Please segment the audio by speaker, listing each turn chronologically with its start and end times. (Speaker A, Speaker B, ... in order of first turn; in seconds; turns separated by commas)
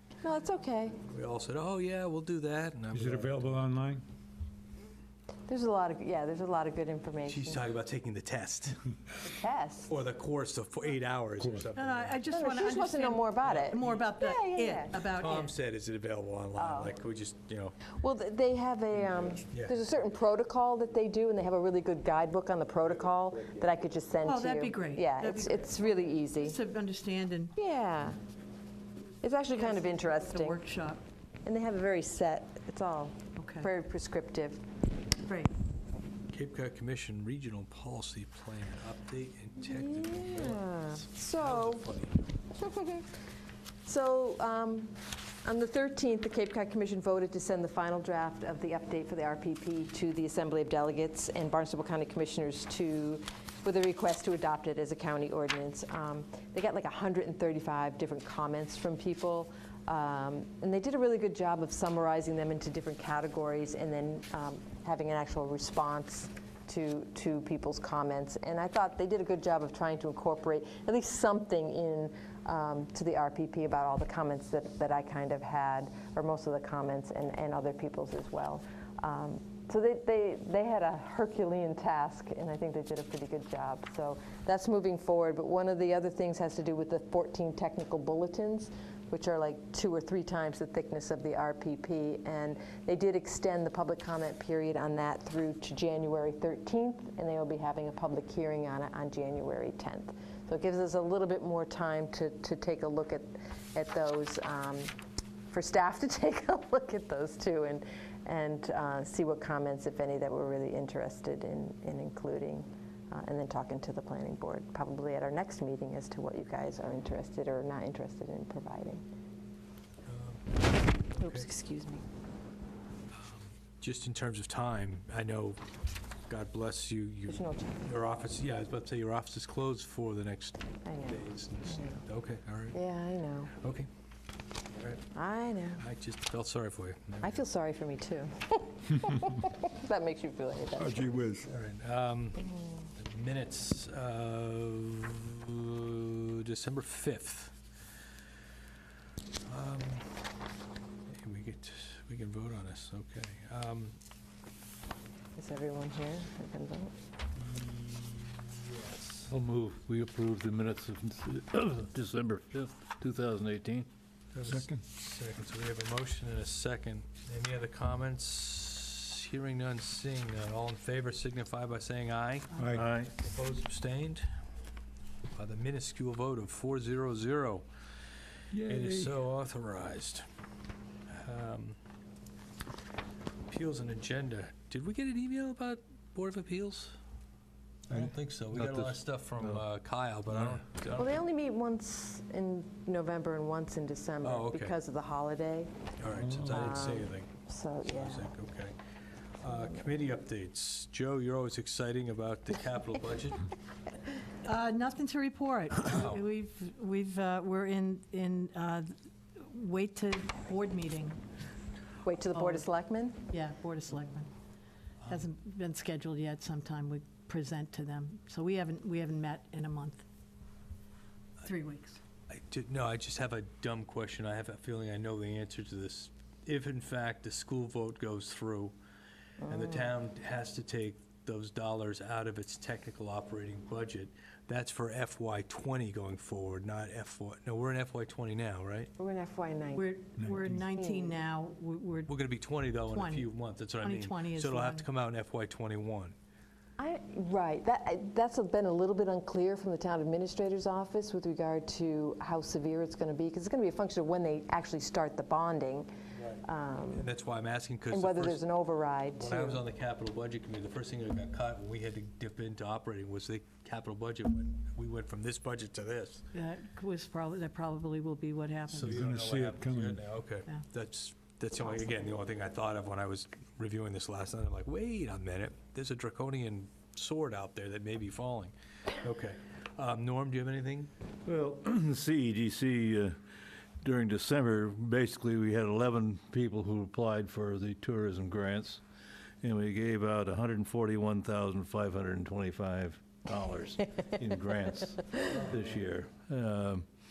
Speaker A: 0.2-1.0, Speaker B: 1.0-3.6, Speaker C: 2.9-4.0, Speaker A: 5.5-7.6, Speaker B: 7.3-8.8, Speaker A: 9.2-9.9, Speaker B: 9.9-12.2, Speaker D: 11.8-15.5, Speaker A: 12.3-15.0, Speaker B: 13.4-14.1, Speaker B: 15.0-17.8, Speaker A: 16.6-16.9, Speaker A: 17.9-26.6, Speaker B: 19.5-19.8, Speaker D: 24.2-27.6, Speaker A: 27.6-28.2, Speaker A: 29.2-30.6, Speaker D: 29.5-31.0, Speaker A: 31.4-34.6, Speaker D: 33.4-33.7, Speaker D: 35.2-35.5, Speaker B: 36.3-42.3, Speaker A: 39.6-41.9, Speaker A: 42.5-43.1, Speaker A: 43.9-104.9, Speaker A: 105.5-119.0, Speaker B: 120.1-121.5, Speaker A: 121.2-122.0, Speaker B: 123.1-125.6, Speaker B: 126.3-132.8, Speaker A: 127.3-127.8, Speaker A: 130.8-132.0, Speaker A: 132.7-133.5, Speaker B: 133.6-133.9, Speaker B: 134.7-135.1, Speaker A: 135.2-135.8, Speaker B: 135.8-137.4, Speaker A: 137.2-141.3, Speaker C: 140.8-141.5, Speaker B: 141.5-147.6, Speaker A: 142.4-142.9, Speaker B: 149.4-150.2, Speaker B: 151.1-154.0, Speaker A: 155.4-156.9, Speaker B: 157.4-159.2, Speaker E: 159.3-163.9, Speaker B: 164.3-174.3, Speaker C: 172.6-172.8, Speaker E: 172.8-173.1, Speaker B: 175.3-177.7, Speaker B: 178.6-180.3, Speaker E: 178.7-179.1, Speaker B: 181.1-181.8, Speaker B: 183.5-187.0, Speaker B: 187.9-191.2, Speaker E: 188.6-189.6, Speaker E: 190.3-190.6, Speaker A: 191.0-198.3, Speaker B: 194.2-194.8, Speaker B: 196.0-197.3, Speaker B: 197.9-198.8, Speaker B: 199.4-203.5, Speaker D: 204.4-211.2, Speaker B: 205.9-206.2, Speaker A: 212.0-213.2, Speaker D: 212.3-212.7, Speaker D: 213.3-214.3, Speaker D: 215.1-220.1, Speaker D: 221.4-222.0, Speaker B: 222.3-228.8, Speaker A: 229.4-229.9, Speaker B: 229.5-238.9, Speaker A: 239.0-241.2, Speaker D: 239.7-242.1, Speaker B: 242.1-246.2, Speaker D: 242.9-244.9, Speaker A: 246.8-255.9, Speaker B: 256.2-256.4, Speaker A: 256.4-257.1, Speaker B: 256.9-258.5, Speaker A: 257.9-259.6, Speaker B: 259.2-266.2, Speaker D: 266.3-269.0, Speaker B: 268.7-280.9, Speaker C: 268.9-270.0, Speaker E: 281.2-283.2, Speaker E: 283.8-288.8, Speaker E: 289.4-296.9